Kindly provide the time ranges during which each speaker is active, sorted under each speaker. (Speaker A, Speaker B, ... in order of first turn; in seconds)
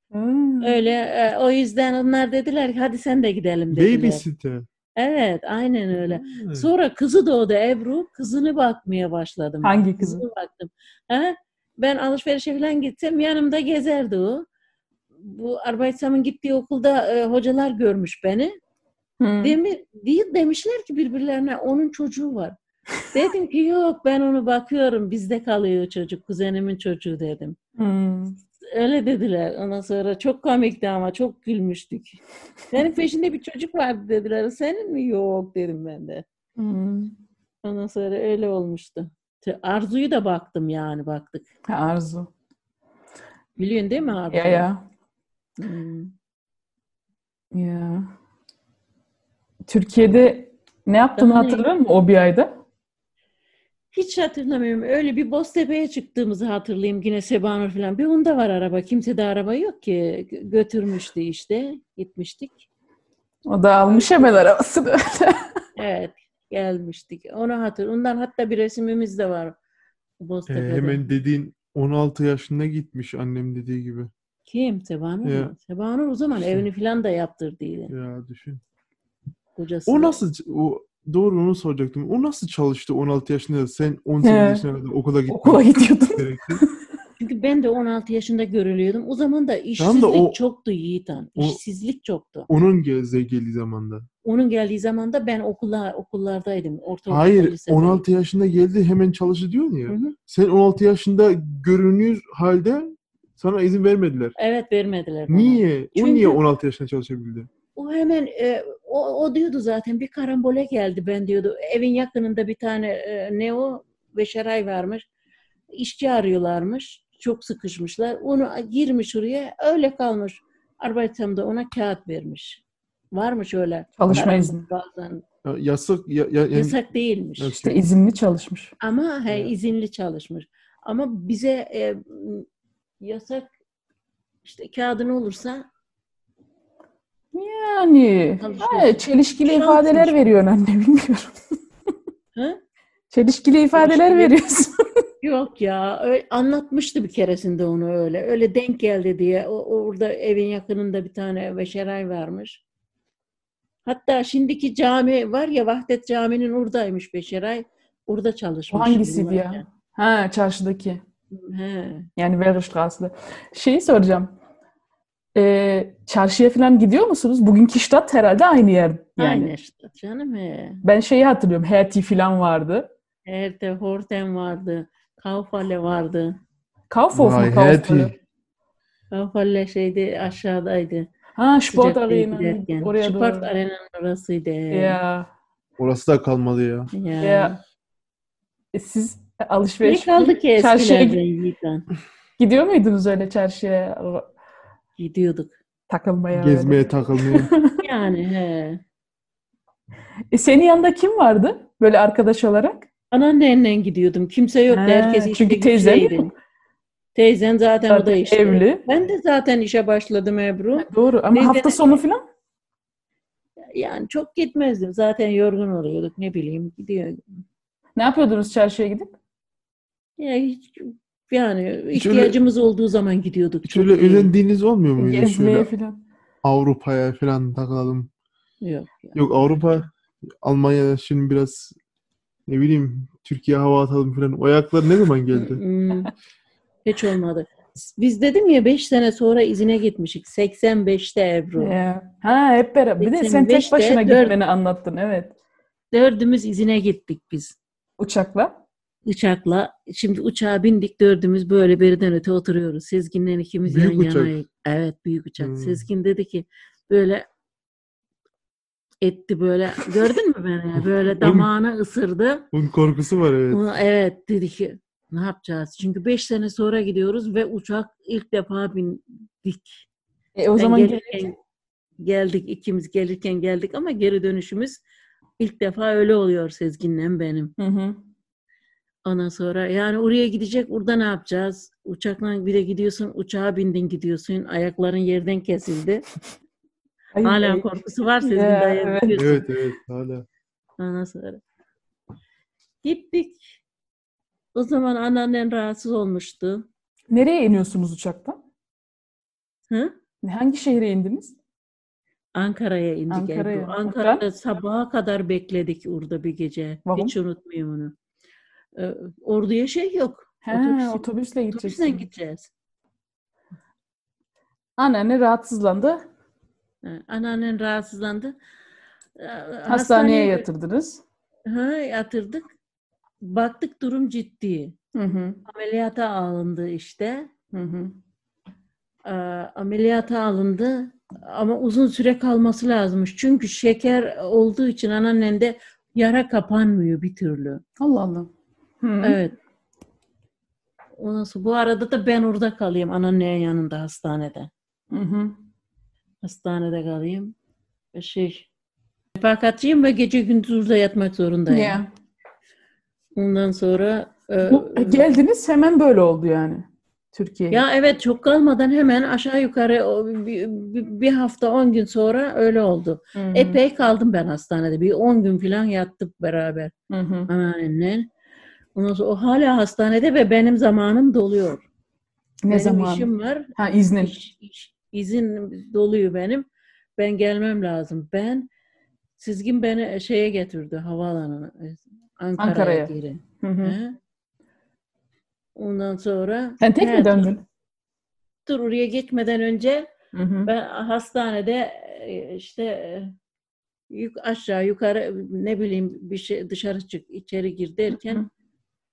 Speaker A: 0.1-0.8, 9.6-10.2, 19.2-19.6, 27.8-28.4, 36.6-37.1, 41.7-42.3, 44.3-44.8, 47.5-48.1, 49.7-52.5, 63.5-65.4, 84.2-84.6, 85.3-86.6, 124.0-124.7, 127.6-128.7, 137.3-141.4, 143.1-144.7, 158.7-161.0, 162.2-164.3, 165.3-169.5, 170.8-172.9, 176.9-178.2, 181.3-183.5, 184.7-185.3, 187.2-187.6, 188.7-191.2, 192.4-194.3, 195.9-197.8, 200.3-202.8, 204.7-206.3, 207.9-208.8, 210.8-212.2, 218.0-219.1, 225.0-226.0, 241.6-245.3, 248.0-248.5, 270.4-271.2, 277.6-278.0, 287.1-289.2, 297.1-298.4, 300.2-301.4, 303.1-304.2, 306.9-307.1, 310.4-312.0, 314.8-316.0, 319.7-321.0, 324.9-325.4, 327.5-327.9, 337.8-338.3, 338.8-339.2, 344.9-345.4, 351.5-351.9, 354.4-357.6, 363.1-363.6, 366.9-367.3, 372.4-374.2, 382.4-383.8, 386.6-387.4, 390.1-390.5
Speaker B: 0.6-4.2, 5.0-14.4, 15.2-18.5, 19.4-22.5, 23.1-27.6, 28.7-36.2, 37.6-41.5, 43.6-44.7, 45.6-46.1, 51.1-51.7, 53.9-62.6, 63.8-64.5, 65.8-69.6, 70.2-71.0, 74.5-77.9, 79.5-80.2, 87.2-92.5, 94.2-98.0, 99.9-100.1, 104.4-106.3, 107.8-115.0, 115.8-122.6, 123.1-125.2, 126.5-127.6, 128.8-132.4, 133.0-133.5, 134.4-135.6, 138.4-140.2, 143.7-144.3, 145.2-152.6, 153.8-159.6, 161.3-162.1, 169.2-170.8, 173.2-176.4, 179.1-181.1, 181.7-185.0, 186.9-187.6, 189.8-191.9, 195.0-195.6, 197.8-198.8, 203.1-206.3, 207.1-211.9, 213.7-217.2, 220.2-224.3, 228.6-229.2, 235.3-236.1, 236.8-241.7, 243.0-244.3, 245.9-247.6, 249.1-257.2, 259.0-262.4, 263.5-269.9, 270.6-271.3, 272.0-274.8, 275.4-277.5, 279.0-286.0, 287.2-289.4, 290.8-291.4, 292.8-293.6, 294.5-296.6, 302.3-307.9, 308.8-312.5, 316.8-318.3, 319.2-320.4, 321.5-322.4, 323.2-324.7, 325.5-327.3, 329.0-337.6, 339.0-339.4, 341.0-344.5, 346.2-347.3, 347.9-348.5, 349.1-351.8, 353.1-355.1, 357.5-366.7, 367.3-368.1, 368.7-371.6, 372.5-378.5, 379.2-383.9, 385.6-387.3, 388.4-389.9, 390.4-393.1, 393.9-398.2
Speaker C: 3.7-4.7, 6.0-6.7, 70.5-74.1, 75.2-75.5, 77.9-78.6, 79.9-86.6, 89.8-90.4, 92.5-94.1, 97.1-104.3, 105.3-107.5, 125.4-126.8, 127.4-127.8, 177.1-178.1, 185.8-186.9, 196.3-197.5, 221.9-222.3, 223.6-225.7, 226.4-228.1, 229.1-231.7, 232.5-235.6, 253.6-254.4, 255.4-255.8, 261.2-261.5, 262.5-263.6, 289.1-290.2